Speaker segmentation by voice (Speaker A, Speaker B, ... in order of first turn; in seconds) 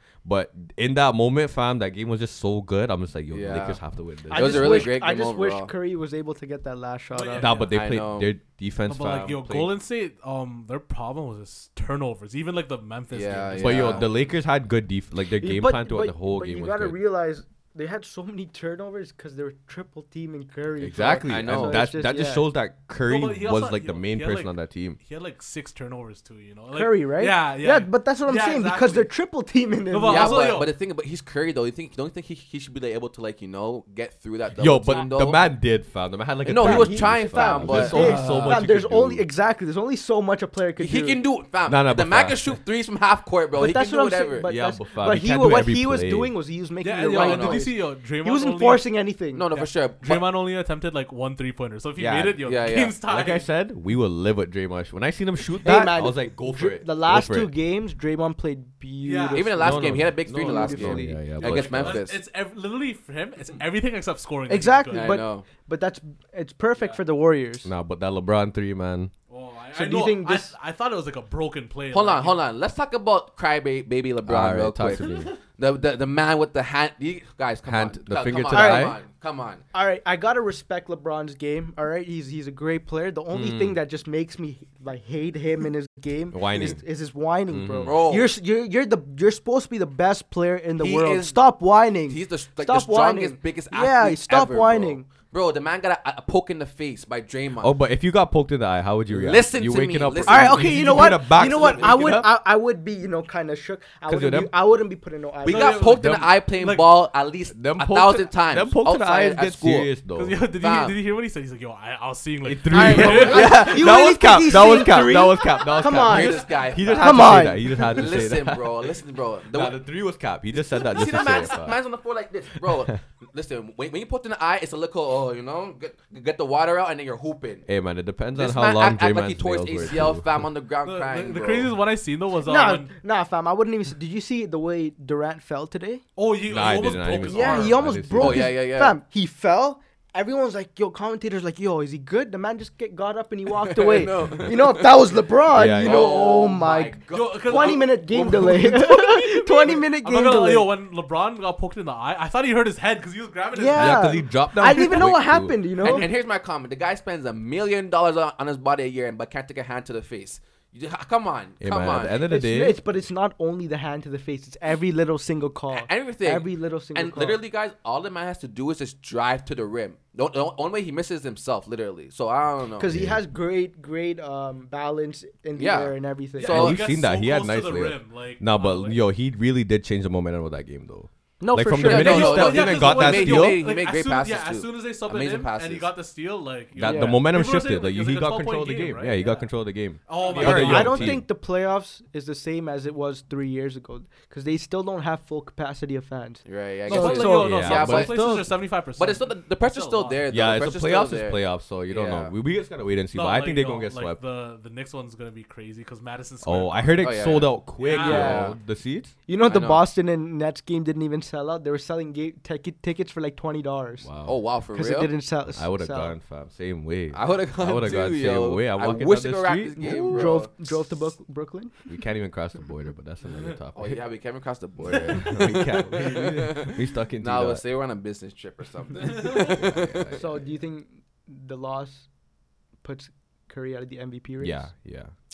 Speaker A: 0.2-4.9, 7.4-9.7, 13.6-17.0, 20.8-25.0, 34.6-39.2, 41.6-42.5, 44.4-46.3, 52.0-52.4, 53.0-57.5, 59.6-62.0, 67.6-69.1, 74.2-75.3, 77.7-79.0, 83.3-83.8, 86.3-86.8, 87.5-88.0, 97.6-102.3, 104.1-104.5, 106.0-106.3, 107.5-110.4, 112.4-118.9, 119.5-121.8, 122.6-123.0, 127.7-130.4, 136.5-138.6, 145.5-146.2, 153.7-155.6, 161.6-162.8, 172.9-173.2, 176.5-183.6, 186.7-191.2, 197.2-198.3, 200.3-204.2, 206.4-209.1, 214.0-214.4, 215.5-220.4, 221.9-224.0, 225.1-227.6, 229.5-230.4, 234.4-235.1
Speaker B: 3.3-3.8, 4.3-5.7, 7.7-8.3, 13.1-14.1, 21.2-21.8, 30.0-35.4, 36.5-38.2, 40.8-44.5, 47.1-47.6, 49.3-50.2, 52.4-53.0, 59.3-62.2, 64.9-65.5, 71.9-79.6, 87.8-88.3, 90.8-91.4, 92.1-97.8, 99.1-102.1, 105.4-109.9, 110.6-111.0, 116.0-119.8, 120.6-127.6, 128.3-131.7, 138.2-139.0, 143.5-144.9, 145.8-148.4, 155.8-162.2, 165.7-172.9, 175.6-176.8, 181.8-185.9, 196.4-198.2, 199.0-202.3, 207.0-208.6, 209.4-209.8, 214.2-215.1, 217.1-220.5, 223.7-230.2
Speaker C: 4.3-7.5, 15.4-22.5, 26.7-30.6, 36.5-41.2, 43.5-49.5, 55.6-61.2, 64.5-67.7, 69.7-70.5, 78.5-79.0, 79.7-95.1, 100.3-105.9, 112.7-118.0, 132.4-136.0, 137.3-150.7, 153.5-156.1, 162.3-167.4, 172.8-176.7, 181.4-182.5, 186.8-187.2, 190.3-198.5, 208.0-208.5, 209.3-214.1, 214.7-216.1, 219.8-221.7, 230.1-232.1, 232.8-234.7
Speaker D: 7.1-7.7, 8.9-14.3, 23.0-29.1, 29.9-30.7, 37.9-38.6, 46.8-48.9, 49.5-53.5, 59.0-59.5, 61.4-65.2, 69.3-72.4, 105.5-106.9, 110.2-113.9, 130.8-132.9, 136.2-137.8, 147.1-154.3, 176.4-179.0, 181.9-189.5, 190.1-191.2, 196.9-200.2, 203.1-207.2, 207.8-208.4